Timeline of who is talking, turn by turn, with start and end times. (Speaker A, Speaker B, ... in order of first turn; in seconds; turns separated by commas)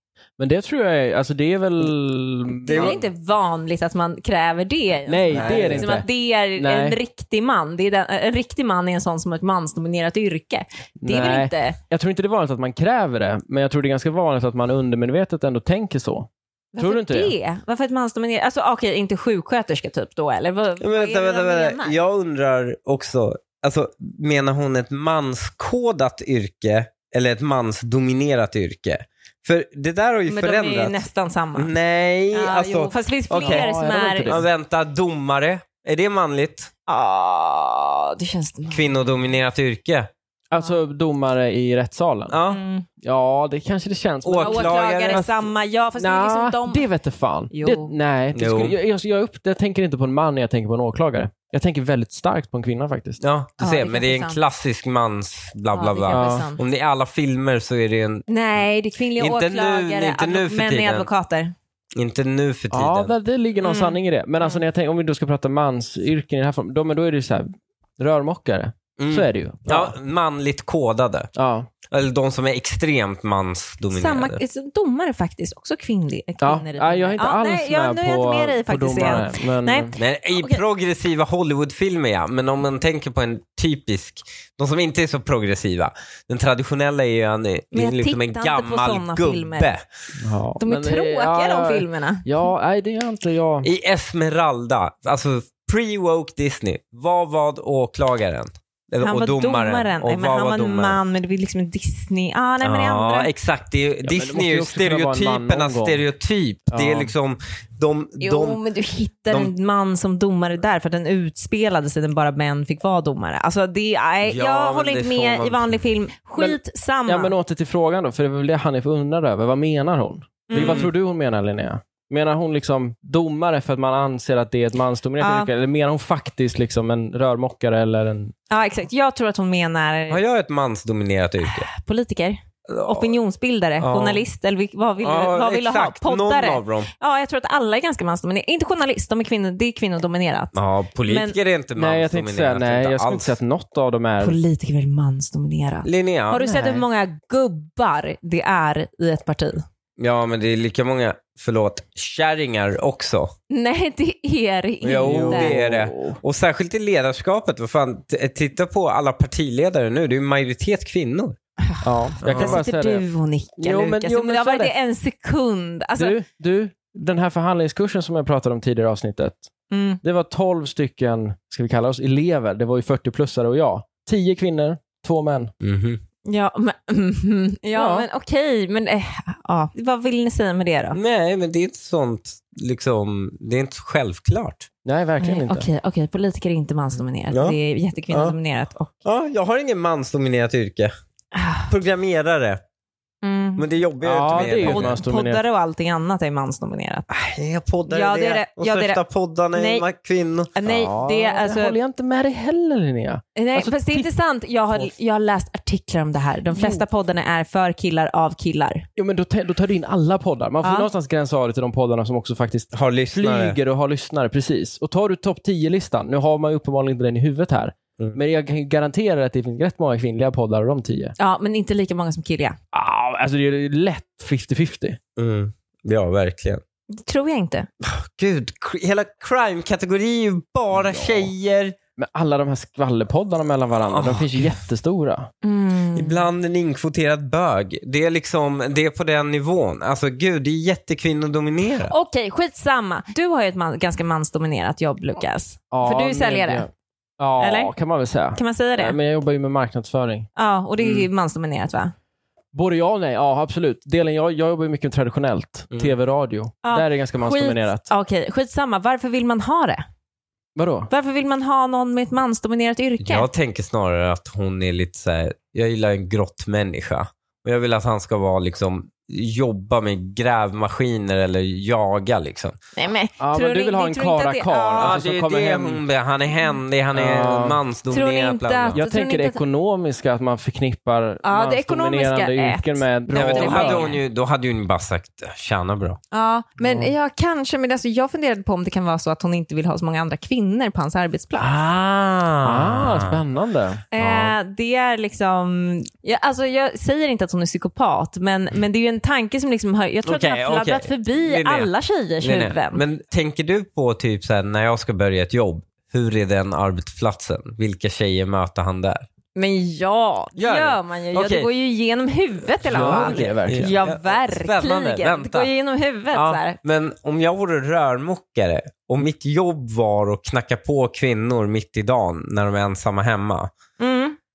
Speaker A: 0.4-3.0, Speaker B: 2.6-3.0, Speaker C: 2.7-11.8, Speaker A: 5.1-7.0, Speaker B: 5.3-6.0, Speaker A: 11.0-17.3, Speaker C: 16.7-22.0, Speaker B: 20.8-31.0, Speaker C: 30.3-31.7, Speaker B: 31.6-33.7, Speaker C: 32.3-34.3, Speaker A: 33.3-34.5, Speaker B: 34.2-36.7, Speaker C: 36.9-38.9, Speaker B: 38.7-40.1, Speaker A: 40.5-42.3, Speaker B: 42.3-42.6, Speaker C: 42.5-42.9, Speaker A: 43.0-45.4, Speaker B: 44.2-45.3, Speaker C: 44.4-46.9, Speaker A: 46.0-53.2, Speaker C: 47.5-47.9, Speaker B: 48.3-48.7, Speaker B: 53.2-58.2, Speaker C: 53.6-54.4, Speaker C: 55.7-56.6, Speaker A: 56.1-56.5, Speaker C: 58.3-61.5, Speaker B: 59.2-61.1, Speaker B: 61.9-63.1, Speaker A: 62.7-69.9, Speaker C: 63.6-64.6, Speaker B: 69.0-71.3, Speaker A: 71.3-71.7, Speaker B: 71.9-74.4, Speaker C: 73.9-80.6, Speaker A: 76.4-79.9, Speaker B: 80.0-89.8, Speaker C: 87.7-89.7, Speaker A: 90.2-93.7, Speaker C: 90.6-92.3, Speaker B: 93.6-101.0, Speaker C: 99.0-103.3, Speaker B: 102.6-108.6, Speaker A: 104.0-106.0, Speaker A: 106.7-107.1, Speaker C: 108.2-117.3, Speaker B: 114.2-115.8, Speaker A: 116.4-128.3, Speaker C: 120.5-120.9, Speaker B: 120.5-120.9, Speaker C: 125.2-125.5, Speaker C: 128.5-130.2, Speaker B: 130.1-131.7, Speaker C: 131.4-140.5, Speaker B: 132.7-133.1, Speaker B: 133.8-134.2, Speaker B: 135.0-136.9, Speaker B: 140.5-143.3, Speaker C: 141.1-141.3, Speaker A: 141.8-144.4, Speaker C: 144.2-149.6, Speaker B: 145.8-146.4, Speaker A: 146.4-146.8, Speaker B: 150.0-153.3, Speaker C: 153.5-155.5, Speaker B: 154.8-161.3, Speaker A: 155.0-156.2, Speaker C: 161.6-166.2, Speaker A: 161.8-163.1, Speaker B: 162.2-162.6, Speaker A: 163.6-164.7, Speaker A: 166.0-169.5, Speaker C: 169.7-170.0, Speaker A: 170.0-175.5, Speaker B: 175.6-176.0, Speaker C: 176.2-181.0, Speaker A: 177.7-178.1, Speaker B: 180.9-184.7, Speaker A: 184.8-185.7, Speaker C: 185.2-188.9, Speaker B: 187.3-187.6, Speaker B: 188.1-188.3, Speaker B: 189.0-190.9, Speaker C: 191.3-191.7, Speaker B: 191.7-192.6, Speaker C: 193.2-193.7, Speaker B: 193.6-195.0, Speaker A: 194.0-195.4, Speaker C: 194.6-197.1, Speaker B: 197.1-200.6, Speaker C: 197.9-199.0, Speaker C: 199.5-199.8, Speaker C: 200.5-201.8, Speaker A: 200.6-204.1, Speaker C: 203.3-208.8, Speaker A: 206.5-206.8, Speaker A: 209.0-221.1, Speaker C: 210.6-210.9, Speaker B: 212.7-213.6, Speaker C: 221.2-222.6, Speaker A: 222.7-225.0, Speaker B: 225.2-226.6, Speaker C: 226.9-227.7, Speaker B: 227.8-231.8, Speaker A: 230.7-231.3, Speaker A: 232.0-235.3, Speaker B: 233.9-234.6, Speaker C: 235.4-236.2, Speaker B: 235.9-241.9, Speaker C: 241.9-246.7, Speaker A: 245.7-250.3, Speaker C: 247.4-247.7, Speaker C: 248.3-249.0, Speaker C: 250.3-251.9, Speaker B: 250.8-251.1, Speaker A: 252.5-257.9, Speaker C: 256.6-259.8, Speaker A: 260.6-260.9, Speaker C: 260.9-263.3, Speaker B: 263.0-272.5, Speaker C: 272.8-275.0, Speaker A: 273.2-275.8, Speaker B: 274.8-278.8, Speaker A: 276.9-277.6, Speaker C: 277.9-279.4, Speaker A: 278.7-283.9, Speaker C: 281.2-284.0, Speaker B: 283.1-286.0, Speaker C: 286.1-291.5, Speaker A: 286.6-286.9, Speaker B: 291.4-293.2, Speaker A: 292.4-294.3, Speaker C: 293.9-302.8, Speaker B: 300.0-301.7, Speaker B: 302.2-309.1, Speaker C: 309.3-316.6, Speaker B: 310.4-311.5, Speaker A: 312.6-313.7, Speaker B: 312.6-315.5, Speaker B: 316.1-323.5, Speaker C: 323.8-324.2